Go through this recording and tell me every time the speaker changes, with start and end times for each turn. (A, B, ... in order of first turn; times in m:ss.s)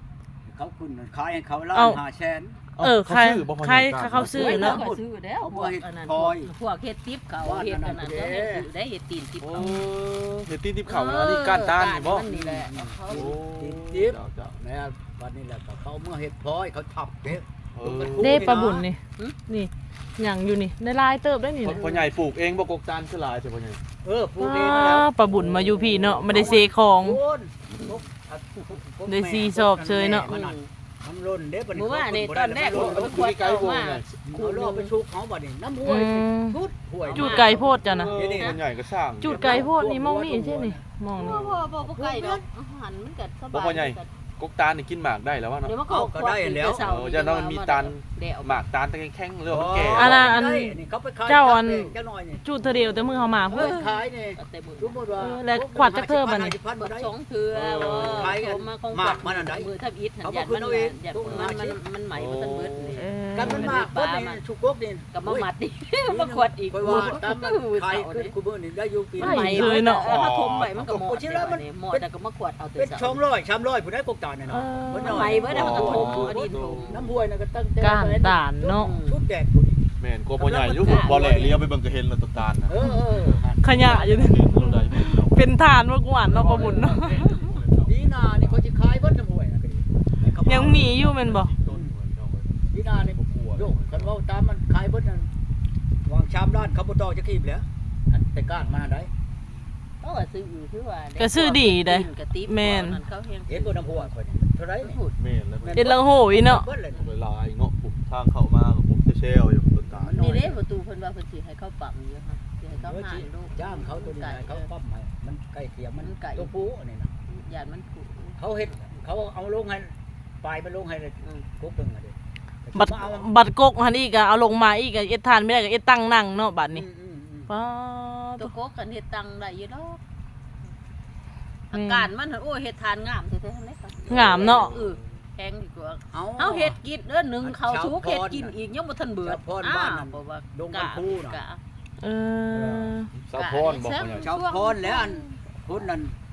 0:00.4-0:02.6 A
0:01.7-0:02.0 B
0:02.8-0:04.6 C
0:02.8-0:04.8 B
0:04.3-0:09.7 D
0:04.4-0:06.5 A
0:07.4-0:08.7 A
0:09.4-0:12.2 C
0:09.6-0:09.9 B
0:10.9-0:13.3 D
0:12.2-0:18.9 A
0:13.1-0:14.6 C
0:17.7-0:18.5 C
0:18.2-0:22.0 B
0:21.6-0:23.8 C
0:24.0-0:33.2 A
0:24.4-0:27.2 B
0:26.3-0:26.6 C
0:29.1-0:30.3 B
0:30.3-0:30.7 D
0:31.7-0:34.9 D
0:32.6-0:34.1 C
0:34.2-0:38.6 A
0:35.8-0:36.6 B
0:37.0-0:37.6 D
0:37.1-0:38.1 B
0:37.8-0:39.7 C
0:39.2-0:41.4 B
0:39.2-0:42.4 A
0:41.1-0:44.1 D
0:41.2-0:41.5 C
0:43.5-0:45.8 C
0:45.6-0:48.6 D
0:45.9-0:46.9 A
0:46.8-0:50.2 C
0:49.5-0:52.4 A
0:49.9-0:53.8 B
0:52.6-0:53.4 C
0:53.5-0:57.1 A
0:53.5-0:55.2 D
0:55.2-0:56.5 B
0:56.8-1:04.4 D
0:57.5-0:58.3 C
0:57.9-0:59.7 A
1:00.2-1:01.8 A
1:02.1-1:03.7 C
1:03.0-1:03.8 B
1:03.3-1:05.5 A
1:05.1-1:08.3 D
1:06.0-1:09.9 A
1:09.2-1:10.2 B
1:09.2-1:13.2 D
1:10.0-1:10.9 C
1:10.8-1:12.0 A
1:12.8-1:21.6 A
1:14.5-1:15.7 B
1:15.0-1:17.0 D
1:15.4-1:17.1 C
1:17.8-1:18.9 B
1:18.8-1:19.2 D
1:20.0-1:22.7 C
1:20.8-1:21.6 D
1:22.6-1:24.4 A
1:22.8-1:27.3 B
1:23.8-1:25.6 C
1:26.2-1:28.6 C
1:26.4-1:27.4 D
1:27.8-1:30.9 A
1:30.4-1:34.1 C
1:30.4-1:31.5 B
1:31.7-1:32.0 A
1:32.7-1:35.3 A
1:36.0-1:39.1 A
1:40.0-1:44.1 D
1:41.2-1:43.0 B
1:43.5-1:45.0 A
1:44.8-1:45.2 D
1:45.2-1:46.0 C
1:45.6-1:47.0 A
1:45.7-1:46.7 B
1:46.9-1:50.4 C
1:49.9-1:50.6 A
1:50.1-1:54.7 D
1:52.7-1:57.1 A
1:56.0-1:56.5 D
1:57.3-1:58.9 D
1:58.4-2:03.3 A
2:02.7-2:06.8 B
2:06.7-2:07.5 A
2:07.5-2:08.5 B
2:08.4-2:10.0 D
2:11.7-2:21.6 D
2:11.7-2:12.1 B
2:14.1-2:14.7 B
2:14.1-2:15.2 C
2:14.1-2:14.4 A
2:16.1-2:16.8 A
2:17.4-2:18.6 A
2:19.2-2:21.4 A
2:22.0-2:23.1 B
2:22.5-2:22.9 A
2:23.3-2:24.3 C
2:23.3-2:25.4 D
2:24.2-2:26.1 A